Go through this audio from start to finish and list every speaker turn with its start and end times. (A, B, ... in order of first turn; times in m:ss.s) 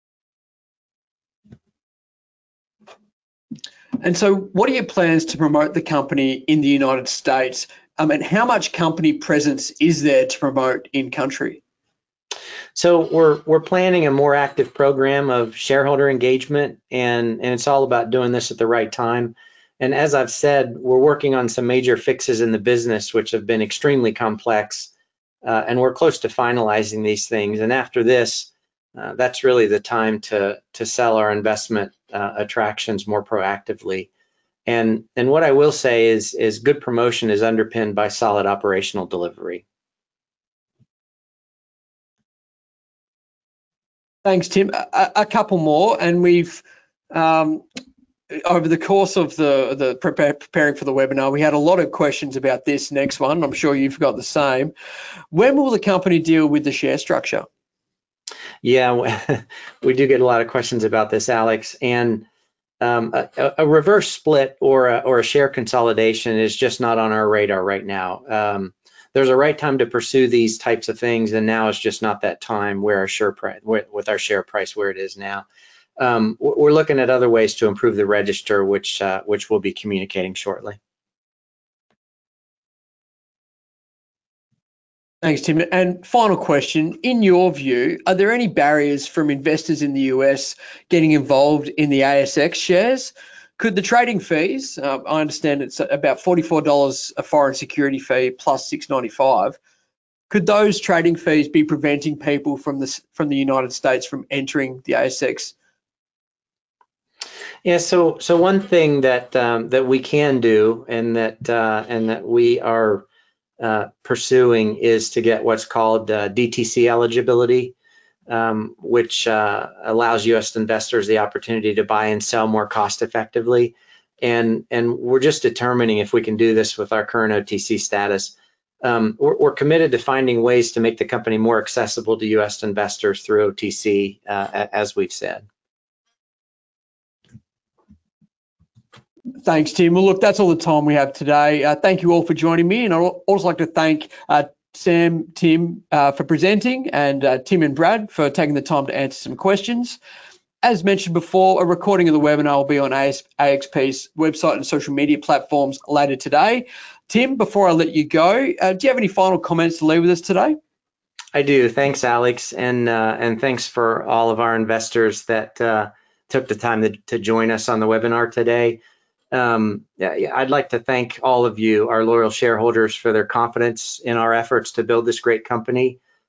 0:04.0-0:11.6 A
0:12.8-0:24.9 B
0:25.4-0:34.1 B
0:34.7-0:39.6 B
0:44.2-0:47.6 A
0:48.3-0:54.7 A
0:55.3-0:57.5 A
0:58.6-1:02.3 B
1:02.8-1:15.4 B
1:16.0-1:20.8 B
1:25.2-1:39.6 A
1:40.3-1:45.5 A
1:47.6-1:53.1 B
1:53.6-1:57.7 B
1:58.3-2:15.4 B
2:19.4-2:30.0 A
2:30.6-2:40.6 A
2:41.3-2:48.8 B
2:49.3-2:56.0 B